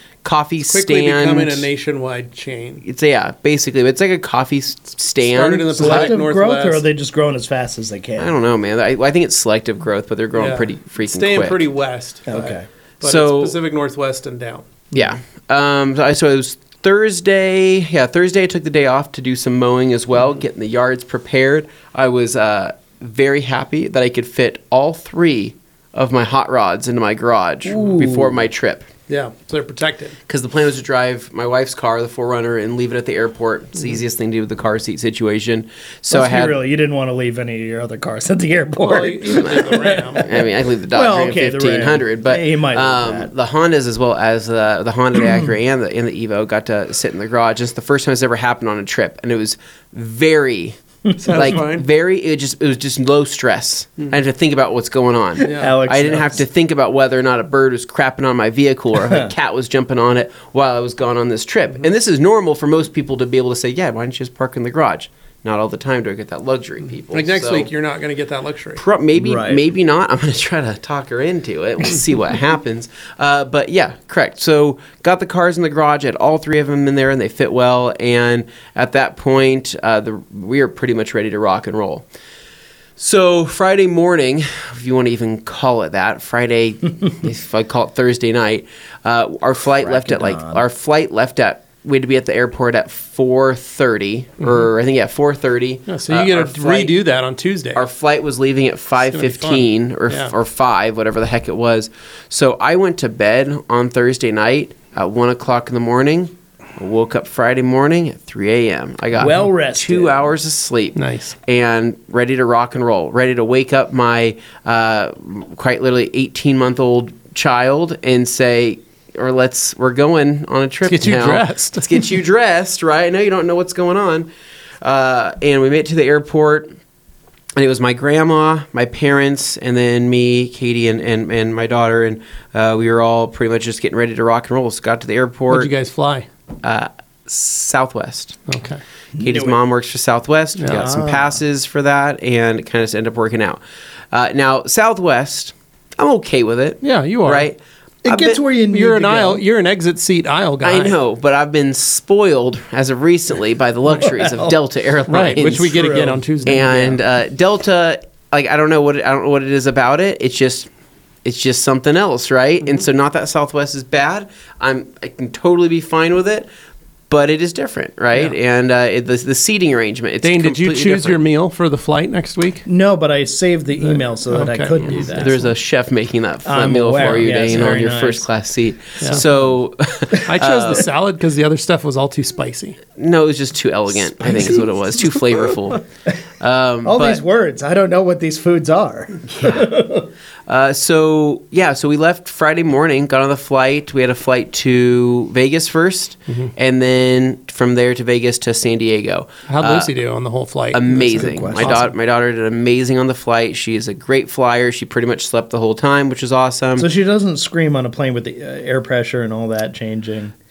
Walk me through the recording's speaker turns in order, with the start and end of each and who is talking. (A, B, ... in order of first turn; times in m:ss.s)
0:00.2-0:01.6 A
0:00.6-0:02.8 B
0:02.8-0:06.1 A
0:05.2-0:06.8 B
0:05.8-0:08.3 C
0:08.2-0:11.6 A
0:10.3-0:14.7 B
0:12.3-0:12.6 C
0:13.0-0:13.6 A
0:14.9-0:28.9 A
0:27.6-0:28.5 C
0:29.1-0:30.2 B
0:30.3-0:36.6 A
0:36.1-0:43.3 C
0:38.8-0:40.3 B
0:39.3-0:50.8 A
0:51.0-0:51.6 C
0:51.2-0:51.8 B
0:51.3-1:07.7 A
0:55.4-0:55.7 B
0:55.5-0:56.4 C
0:59.0-0:59.3 C
1:07.1-1:08.8 B
1:08.8-1:22.0 A
1:09.1-1:09.6 C
1:23.0-1:36.9 A
1:29.8-1:30.6 C
1:35.9-1:37.8 B
1:37.8-2:04.3 A
1:39.1-1:40.3 B
1:49.1-1:50.3 C
1:50.9-1:51.3 B
2:00.8-2:02.0 B
2:04.8-2:06.8 A
2:07.6-2:15.7 A
2:15.5-2:16.3 B
2:16.6-2:18.4 A
2:18.5-2:18.8 B
2:19.1-2:19.6 C
2:19.2-2:23.6 A
2:20.6-2:20.8 B
2:20.7-2:21.4 C
2:24.1-2:28.4 A
2:26.8-2:27.5 B
2:28.0-2:29.4 C
2:28.7-2:31.0 B
2:30.6-2:35.7 A
2:33.9-2:34.6 C
2:35.1-2:37.0 B
2:35.2-2:36.2 C
2:36.4-2:40.7 A
2:41.2-2:46.5 A
2:47.1-2:51.2 A
2:50.2-2:52.6 B
2:52.6-2:55.4 C
2:53.8-2:55.2 B
2:54.8-3:00.8 A
2:56.4-2:58.3 C
2:57.0-2:57.8 B
2:59.1-2:59.4 C
3:00.2-3:02.8 B
3:03.0-3:05.8 A
3:04.0-3:05.6 C
3:06.4-3:07.2 A
3:06.8-3:10.1 C
3:09.3-3:09.7 A
3:10.5-3:19.9 A
3:19.5-3:21.8 B
3:20.7-3:26.9 A
3:21.0-3:21.9 C
3:26.8-3:30.3 C